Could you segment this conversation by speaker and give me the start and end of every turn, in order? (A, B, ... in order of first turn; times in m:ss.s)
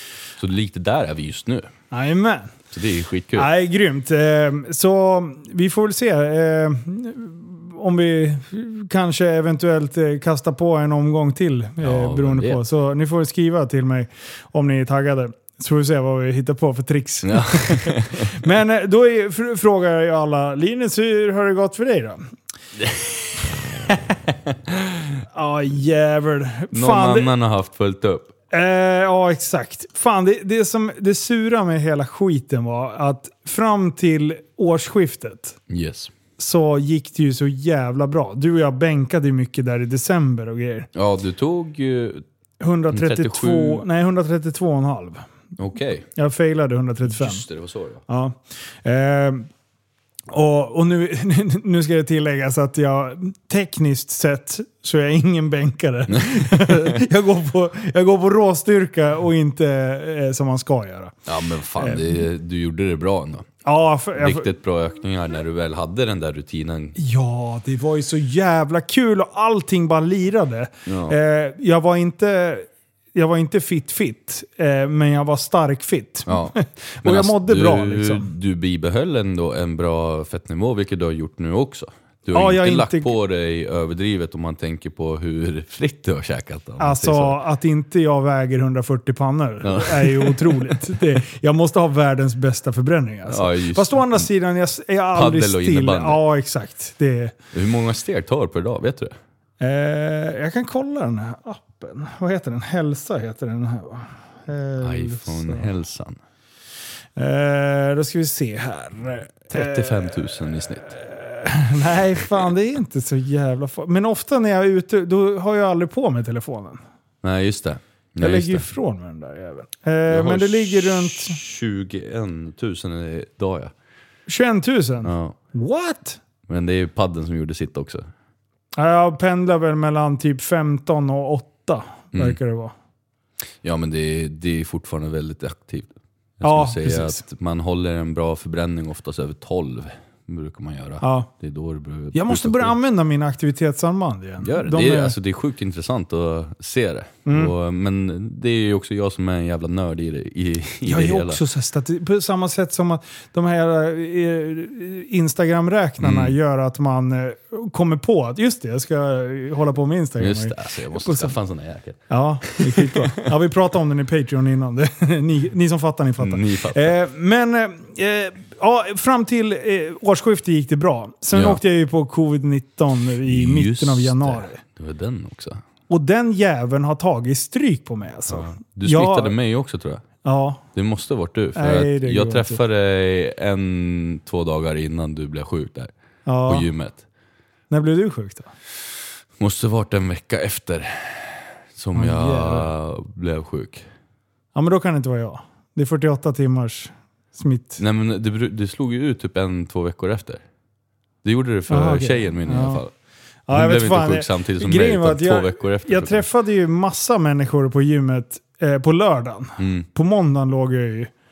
0:00.4-0:01.7 A
0:01.9-0:02.5 B
0:02.7-0:03.5 A
0:03.4-0:22.2 B
0:11.8-0:12.6 A
0:17.2-0:18.4 A
0:22.8-0:25.1 A
0:25.3-0:27.3 B
0:26.7-0:28.3 A
0:28.5-0:35.6 B
0:35.7-0:36.1 A
0:36.4-0:40.9 B
0:40.9-0:42.2 A
0:42.6-0:45.2 B
0:42.9-0:43.8 A
0:45.6-0:46.1 A
0:46.2-0:47.4 B
0:47.1-0:48.0 A
0:48.1-0:49.5 B
0:50.3-1:01.2 B
0:56.1-0:57.0 A
1:01.3-1:03.5 A
1:01.8-1:02.2 B
1:03.6-1:04.5 B
1:04.2-1:07.0 A
1:07.0-1:18.3 B
1:10.9-1:11.2 A
1:16.3-1:27.4 A
1:22.3-1:23.1 B
1:26.8-1:37.4 B
1:29.6-1:30.8 A
1:33.3-1:34.2 A
1:35.1-1:36.2 A
1:37.5-1:39.2 A
1:39.6-1:45.7 B
1:44.8-1:46.2 A
1:47.2-1:56.8 B
1:49.5-1:50.9 A
1:57.2-1:58.7 A
1:58.2-2:01.4 B
2:00.1-2:03.7 A
2:04.3-2:06.2 B
2:05.0-2:05.4 A
2:06.5-2:08.1 A
2:08.8-2:12.7 B
2:13.6-2:22.7 A
2:16.4-2:17.2 B
2:21.0-2:21.3 B
2:22.1-2:25.2 B
2:24.4-2:31.4 A
2:27.3-2:27.5 B
2:30.8-2:41.3 B
2:36.0-2:36.4 A
2:40.2-2:43.2 A
2:42.1-2:54.6 B
2:46.2-2:47.0 A
2:51.3-2:51.6 A
2:53.2-2:55.6 A
2:55.9-2:59.3 B
2:58.3-3:00.0 A
3:00.2-3:00.6 B
3:00.8-3:05.9 A
3:01.6-3:02.6 B
3:06.3-3:06.7 B
3:06.5-3:07.0 A
3:07.7-3:08.5 B
3:09.4-3:13.8 A
3:12.0-3:12.7 B
3:14.6-3:17.8 B
3:17.8-3:20.4 A
3:21.2-3:22.9 A
3:21.7-3:22.8 B
3:23.5-3:31.1 B
3:23.5-3:26.2 A
3:29.6-3:29.9 A